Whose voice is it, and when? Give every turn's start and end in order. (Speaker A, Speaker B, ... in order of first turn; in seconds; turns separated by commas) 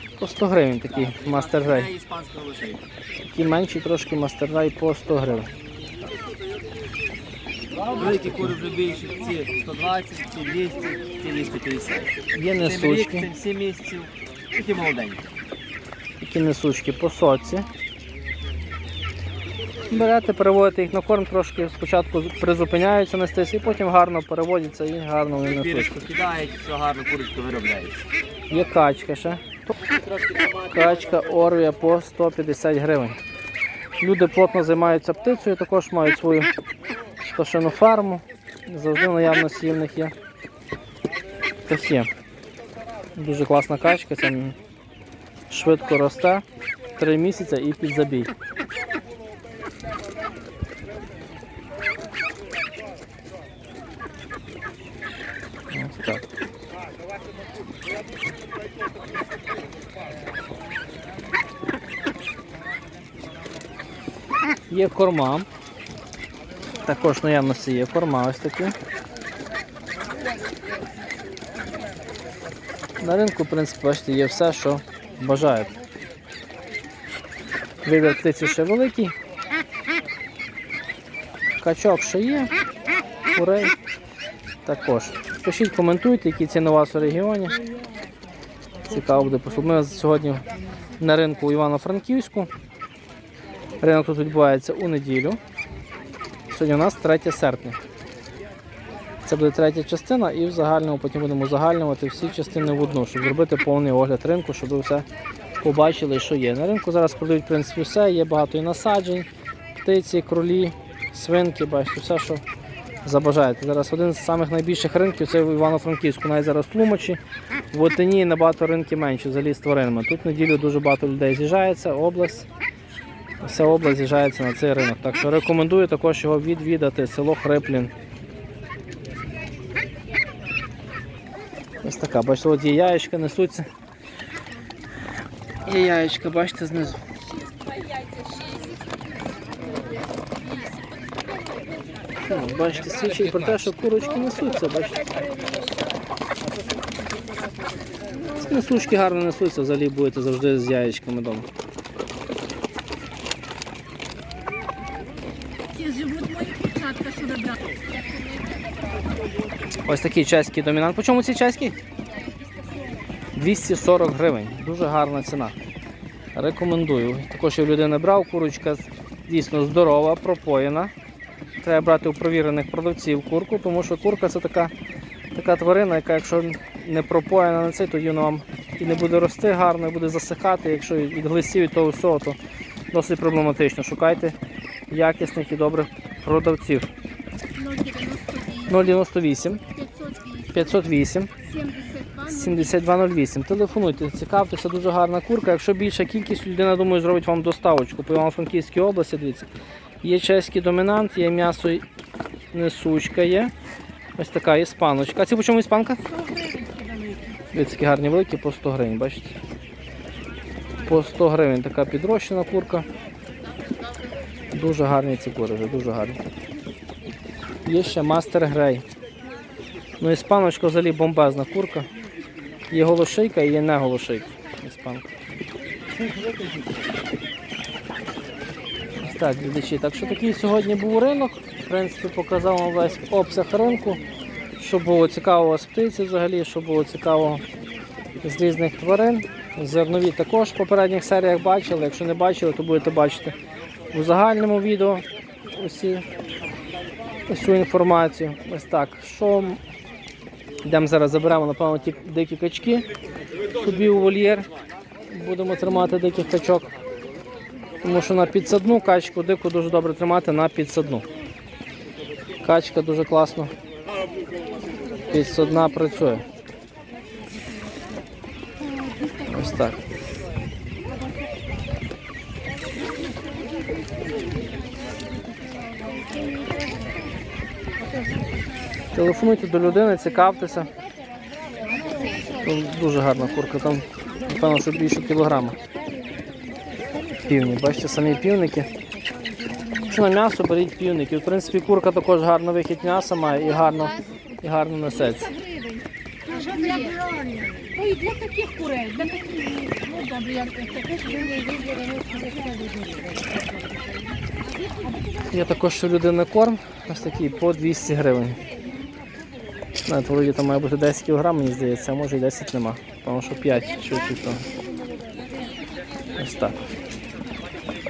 Speaker A: 0.2-1.9, Speaker B: 0.9-2.8, Speaker A: 3.2-5.5, Speaker B: 7.8-15.2, Speaker A: 12.3-13.3, Speaker A: 16.2-17.7, Speaker A: 19.9-26.1, Speaker B: 25.4-28.1, Speaker A: 28.5-29.6, Speaker A: 30.7-33.2, Speaker A: 34.0-36.5, Speaker A: 37.2-40.1, Speaker A: 41.7-42.1, Speaker A: 43.1-44.5, Speaker A: 45.5-46.4, Speaker A: 47.0-48.3, Speaker A: 55.7-56.2, Speaker A: 64.7-65.5, Speaker A: 66.8-68.7, Speaker A: 73.0-75.7, Speaker A: 77.8-79.1, Speaker A: 81.6-82.5, Speaker A: 83.3-83.7, Speaker A: 84.7-87.6, Speaker A: 88.9-90.4, Speaker A: 91.0-92.5, Speaker A: 93.8-95.4, Speaker A: 96.5-97.8, Speaker A: 99.2-105.0, Speaker A: 105.6-109.3, Speaker A: 109.8-112.4, Speaker A: 113.0-117.2, Speaker A: 117.7-122.5, Speaker A: 123.4-127.9, Speaker A: 131.8-133.7, Speaker A: 135.6-137.0, Speaker C: 137.9-138.8, Speaker C: 140.4-140.7, Speaker A: 142.2-145.1, Speaker C: 145.2-146.0, Speaker A: 148.3-151.5, Speaker C: 155.7-158.6, Speaker A: 159.8-161.7, Speaker C: 162.4-162.9, Speaker A: 163.3-165.5, Speaker A: 166.3-170.9, Speaker A: 171.6-174.7, Speaker A: 175.3-182.4, Speaker A: 182.9-184.3, Speaker A: 184.9-186.9, Speaker C: 187.6-188.7, Speaker A: 188.6-189.6, Speaker C: 189.8-190.5, Speaker A: 190.5-191.3, Speaker C: 191.5-192.2, Speaker A: 192.2-199.5, Speaker A: 200.0-201.8, Speaker A: 202.5-203.5, Speaker A: 204.2-206.2, Speaker C: 206.1-207.4, Speaker A: 207.5-209.3, Speaker A: 210.8-212.8, Speaker A: 214.5-216.2, Speaker A: 217.6-218.8, Speaker A: 220.0-221.9, Speaker A: 222.7-225.1, Speaker A: 229.0-234.0, Speaker A: 234.6-237.4, Speaker A: 238.2-243.3, Speaker A: 243.9-246.0, Speaker A: 247.3-249.6, Speaker A: 250.6-252.9, Speaker A: 253.5-254.5, Speaker A: 255.1-256.7, Speaker A: 257.8-261.0, Speaker A: 262.4-263.5, Speaker A: 265.0-266.2, Speaker A: 269.2-269.8, Speaker C: 275.5-276.7, Speaker A: 278.9-280.7, Speaker C: 281.6-282.3, Speaker A: 282.3-285.6, Speaker A: 287.2-288.7, Speaker A: 289.8-295.4, Speaker C: 295.5-303.0, Speaker A: 305.3-308.4, Speaker A: 309.8-314.4, Speaker A: 316.2-316.6